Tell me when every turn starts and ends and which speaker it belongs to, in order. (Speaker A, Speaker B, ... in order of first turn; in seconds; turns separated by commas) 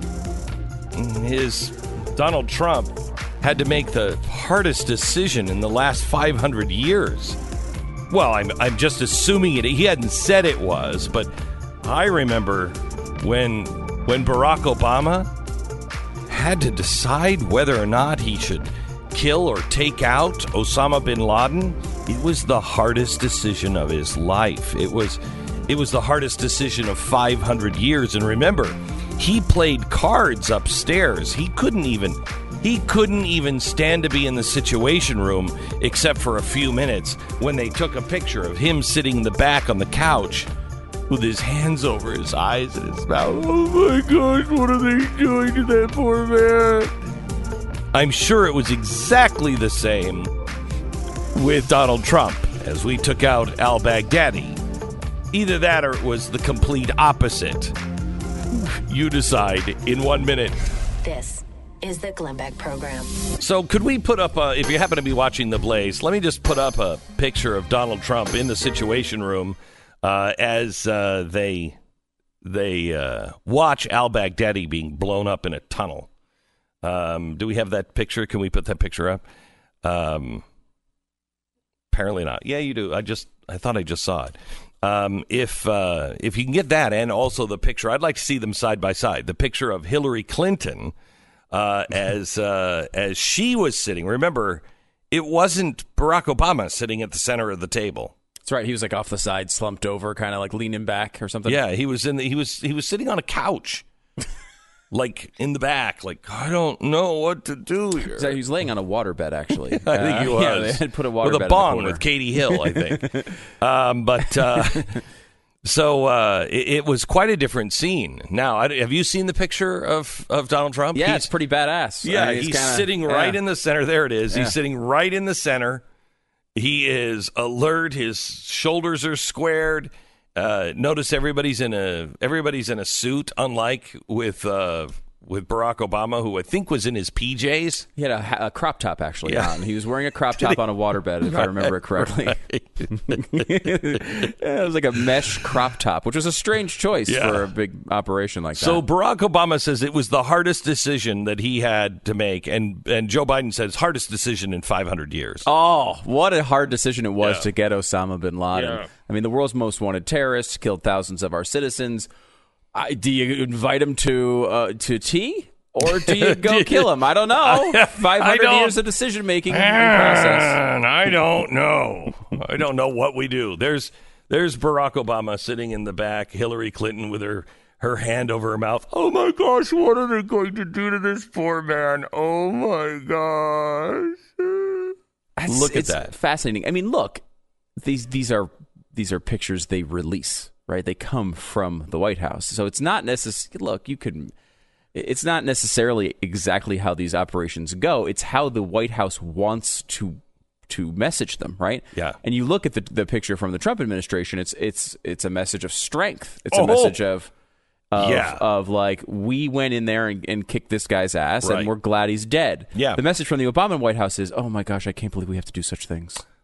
Speaker A: 0.9-7.4, Speaker A: 8.1-15.3, Speaker A: 16.3-40.5, Speaker A: 41.1-46.9, Speaker A: 47.9-50.3, Speaker A: 51.4-54.6, Speaker A: 55.3-57.8, Speaker A: 58.5-60.6, Speaker B: 61.0-63.2, Speaker A: 63.4-71.8, Speaker A: 72.4-76.1, Speaker A: 76.8-79.2, Speaker A: 79.8-80.5, Speaker A: 81.9-90.9, Speaker A: 91.5-98.1, Speaker C: 98.5-101.6, Speaker A: 101.5-103.8, Speaker A: 104.9-108.4, Speaker C: 108.2-113.3, Speaker A: 109.8-115.0, Speaker A: 115.6-121.3, Speaker C: 120.9-123.4, Speaker A: 122.0-125.8, Speaker A: 126.5-137.9, Speaker C: 138.0-148.8, Speaker A: 139.3-139.6, Speaker A: 141.2-144.3, Speaker A: 147.1-147.5, Speaker A: 148.6-155.5, Speaker C: 155.5-162.1, Speaker A: 157.2-157.5, Speaker A: 158.5-158.9, Speaker C: 162.7-170.6, Speaker A: 165.8-168.8, Speaker A: 169.5-184.9, Speaker C: 185.4-187.2, Speaker A: 185.5-186.1, Speaker C: 187.8-194.3, Speaker C: 194.9-207.3, Speaker A: 206.5-207.0, Speaker C: 207.9-216.2, Speaker A: 208.0-208.4, Speaker A: 211.4-211.7, Speaker A: 212.8-213.0